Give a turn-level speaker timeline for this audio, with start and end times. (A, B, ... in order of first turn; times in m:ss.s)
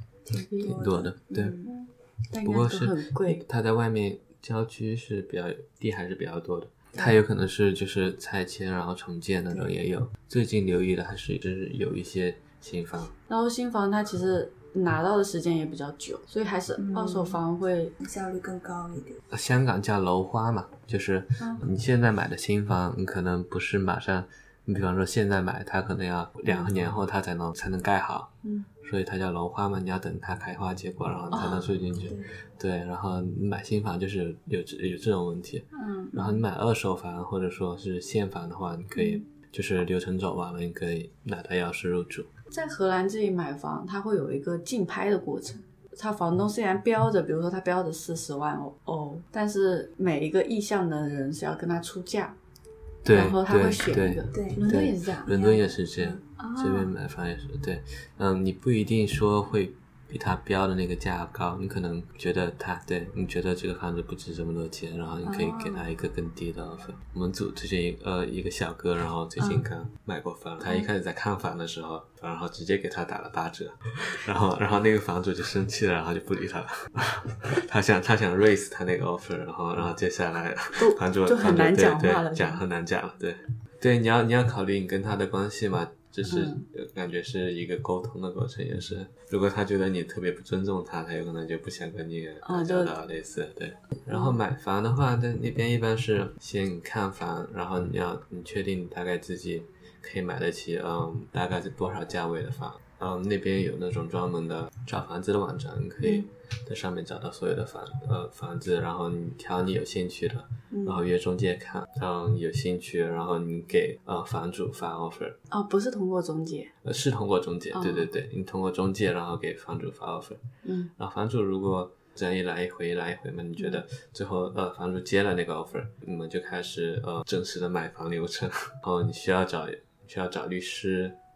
0:00.2-0:01.8 A
0:00.4-0:00.8 B
0:00.6-0:01.6 C
0:01.6-0:03.4 B
0:02.4-0:13.1 C
0:13.3-0:17.9 B
0:16.8-0:17.4 A
0:18.0-0:19.2 A
0:19.3-0:42.3 C
0:21.4-0:21.6 B
0:26.4-0:26.7 B
0:31.3-0:31.7 B
0:32.0-0:32.3 A
0:35.7-0:36.2 B
0:38.9-0:39.2 B
0:42.5-0:52.3 B
0:53.0-1:55.4 C
0:53.1-0:55.3 B
0:54.3-0:54.7 A
0:55.3-0:56.2 A
0:56.4-0:56.9 B
1:05.2-1:05.8 B
1:09.4-1:09.6 B
1:20.7-1:22.6 B
1:26.3-1:26.6 B
1:32.4-1:32.9 B
1:46.0-1:46.3 B
1:50.7-1:51.0 B
1:55.5-1:56.7 B
1:56.8-2:00.4 C
1:57.7-1:58.1 B
2:00.6-2:00.9 B
2:01.0-2:11.2 C